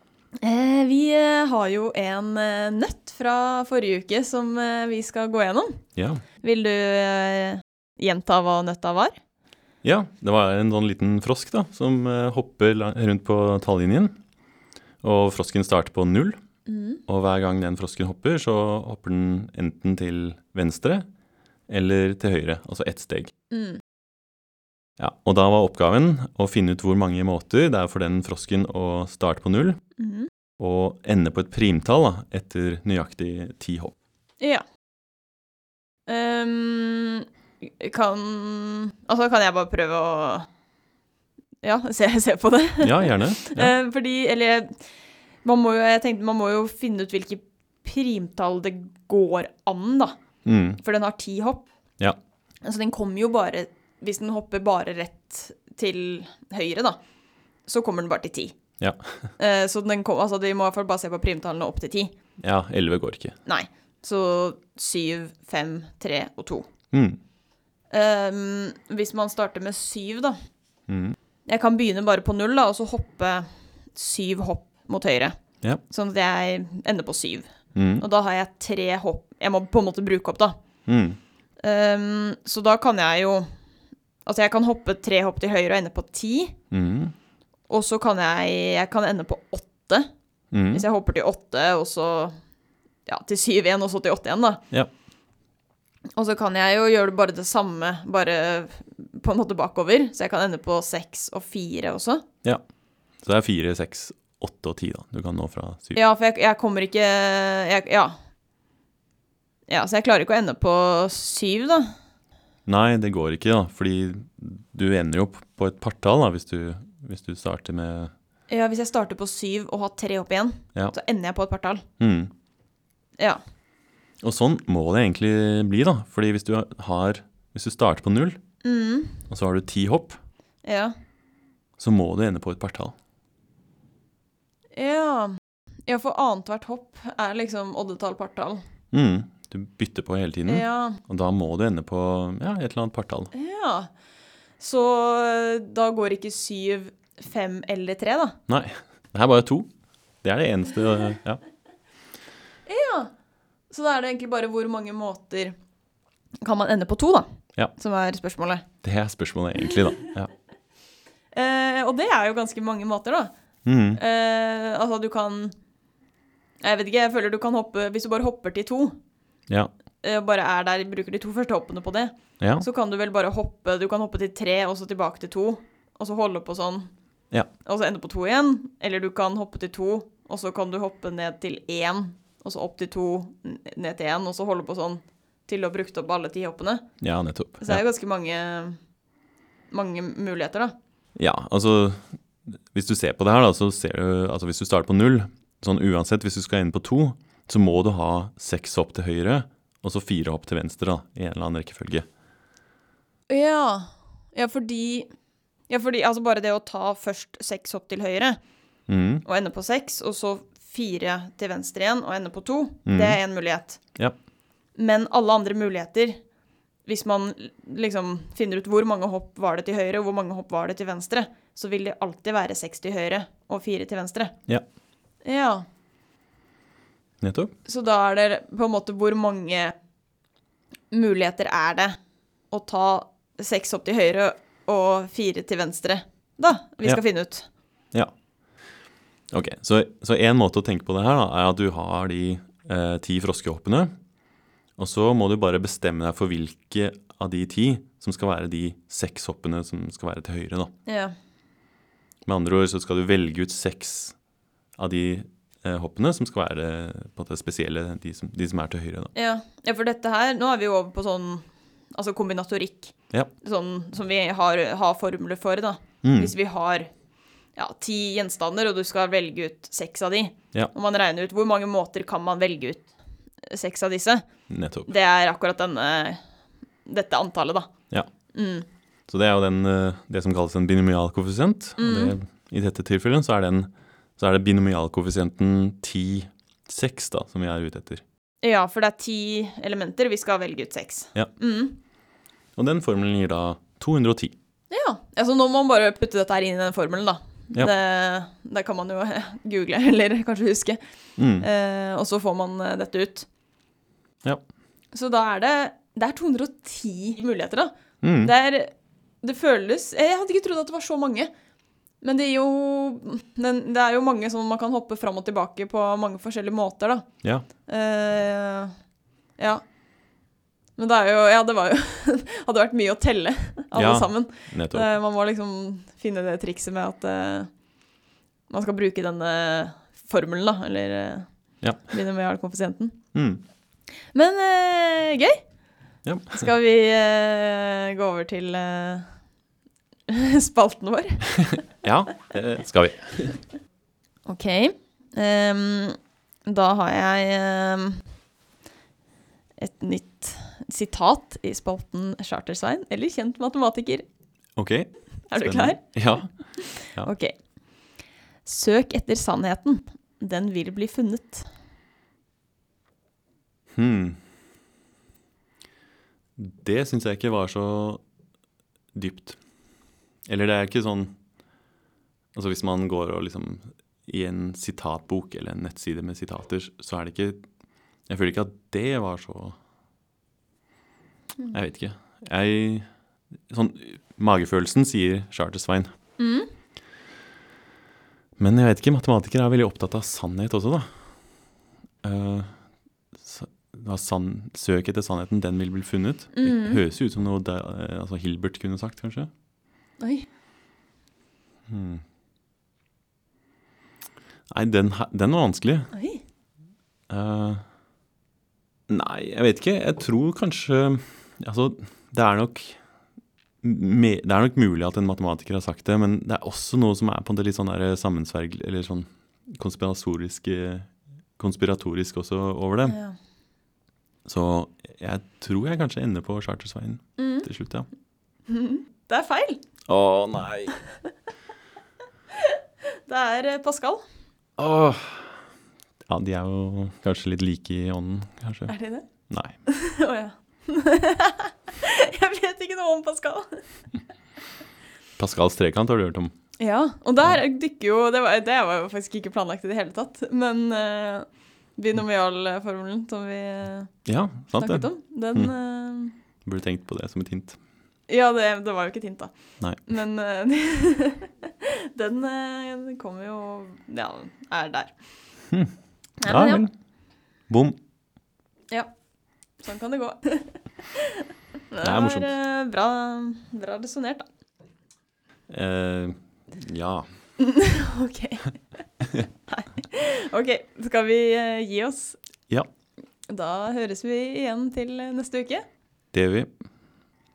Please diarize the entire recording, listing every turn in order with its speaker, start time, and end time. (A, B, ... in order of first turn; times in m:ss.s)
0:00.4-0:05.8 A
0:06.0-0:06.2 B
0:06.4-0:09.1 A
0:09.8-0:14.2 B
0:15.0-0:16.4 B
0:16.7-0:17.0 A
0:17.1-0:21.1 B
0:21.7-0:23.3 B
0:23.5-0:23.8 A
0:25.0-0:29.8 B
0:30.0-0:30.3 A
0:30.6-0:33.9 B
0:36.1-0:40.5 A
0:41.6-0:44.8 A
0:42.8-0:43.8 B
0:45.4-0:50.2 A
0:50.5-0:50.8 B
0:50.8-0:51.7 A
0:52.6-0:57.0 A
0:57.7-0:58.6 A
0:58.8-0:59.3 B
0:59.4-1:02.1 A
1:02.4-1:03.4 B
1:03.5-1:06.7 A
1:06.9-1:07.2 B
1:07.9-1:10.3 A
1:10.9-1:11.2 B
1:11.5-1:15.4 A
1:15.9-1:20.6 A
1:17.8-1:18.0 B
1:20.9-1:21.2 B
1:21.6-1:23.5 A
1:24.2-1:26.6 A
1:26.7-1:27.1 B
1:27.7-1:30.1 A
1:30.5-1:30.8 B
1:30.7-1:32.4 A
1:33.1-1:34.6 A
1:36.2-1:42.2 A
1:43.2-1:46.0 B
1:46.0-1:48.1 A
1:49.7-1:51.9 A
1:52.7-1:58.1 B
1:58.5-2:01.8 A
2:02.0-2:02.3 B
2:04.2-2:08.4 B
2:08.6-2:09.2 A
2:09.3-2:10.2 B
2:10.6-2:10.9 A
2:11.8-2:13.0 B
2:14.7-2:18.6 A
2:18.9-2:23.3 B
2:20.5-2:21.0 A
2:23.3-2:23.9 A
2:24.6-2:28.4 A
2:28.5-2:29.7 B
2:30.2-2:31.4 B
2:32.7-2:33.1 A
2:33.7-2:35.6 A
2:36.4-2:37.2 A
2:37.8-2:38.7 A
2:38.8-2:40.3 B
2:41.3-2:43.3 A
2:43.7-2:44.0 B
2:44.0-2:45.6 A
2:46.6-2:49.0 A
2:50.0-2:56.9 A
2:52.4-2:52.7 B
2:57.6-3:06.9 A
3:07.0-3:07.8 B
3:07.6-3:08.8 A
3:09.7-3:10.7 A
3:11.2-3:22.0 B
3:23.3-3:25.1 A
3:25.7-3:28.4 A
3:28.9-3:29.2 B
3:29.2-3:33.8 A
3:32.9-3:33.2 B
3:34.8-3:36.2 A
3:36.9-3:44.3 A
3:45.2-3:45.6 A
3:47.2-3:47.5 B
3:47.7-3:49.7 A
3:50.9-3:52.0 A
3:52.5-3:57.5 A
3:59.3-4:03.9 B
4:04.8-4:10.7 B
4:10.9-4:11.1 A
4:12.3-4:14.2 B
4:14.8-4:19.1 B
4:19.2-4:26.9 A
4:26.0-4:26.3 B
4:27.6-4:32.9 A
4:33.5-4:34.2 A
4:34.5-4:34.9 B
4:34.9-4:36.2 A
4:36.9-4:37.7 A
4:38.3-4:38.7 A
4:39.1-4:48.0 B
4:41.8-4:42.2 A
4:48.4-4:51.8 A
4:52.6-4:54.4 B
4:54.7-5:00.8 A
5:01.2-5:01.5 B
5:01.4-5:03.3 A
5:04.9-5:11.3 A
5:08.0-5:08.3 B
5:12.0-5:17.1 A
5:17.7-5:18.7 A
5:20.8-5:27.5 A
5:23.7-5:24.9 B
5:28.5-5:31.3 A
5:31.6-5:31.9 B
5:31.8-5:33.0 A
5:33.1-5:33.4 B
5:34.1-5:35.4 A
5:36.0-5:36.5 B
5:36.3-5:39.1 A
5:40.1-5:41.6 A
5:41.8-5:43.4 B
5:44.3-5:48.0 A
5:49.6-5:54.0 A
5:54.6-5:56.3 B
5:55.3-5:55.8 A
5:56.6-5:57.3 A
5:58.4-6:01.5 A
6:03.8-6:04.2 B
6:06.4-6:08.0 B
6:08.9-6:09.4 B
6:10.3-6:11.1 B
6:12.4-6:17.4 B
6:18.1-6:19.6 B
6:21.5-6:22.9 B
6:23.5-6:25.9 B
6:26.2-6:26.5 A
6:28.4-6:30.9 B
6:32.0-6:32.6 B
6:33.1-6:39.3 B
6:36.3-6:36.8 A
6:40.0-6:40.3 A
6:41.7-6:42.0 B
6:44.5-6:45.9 B
6:45.9-6:46.2 A
6:47.1-6:47.6 B
6:48.9-6:52.8 B
6:53.6-7:03.0 B
7:02.8-7:03.2 A
7:04.3-7:07.9 B
7:07.2-7:07.5 A
7:08.5-7:09.6 A
7:09.9-7:10.8 B
7:12.4-7:14.0 A
7:14.6-7:15.4 B
7:16.1-7:18.7 B
7:18.7-7:19.1 A
7:19.3-7:19.6 B
7:19.7-7:23.6 A
7:25.2-7:26.3 B
7:26.6-7:31.3 A
7:31.8-7:33.9 A
7:34.1-7:35.5 B
7:34.6-7:36.2 A
7:36.4-7:37.6 B
7:38.1-7:39.3 A
7:39.8-7:44.9 A
7:46.2-7:46.7 A
7:46.2-7:46.7 B
7:47.5-7:47.8 B
7:49.6-7:54.3 A
7:51.8-7:52.3 B
7:55.5-7:57.1 B
7:57.4-7:58.6 A
7:59.1-8:02.2 A
8:03.3-8:05.6 A
8:06.1-8:06.5 B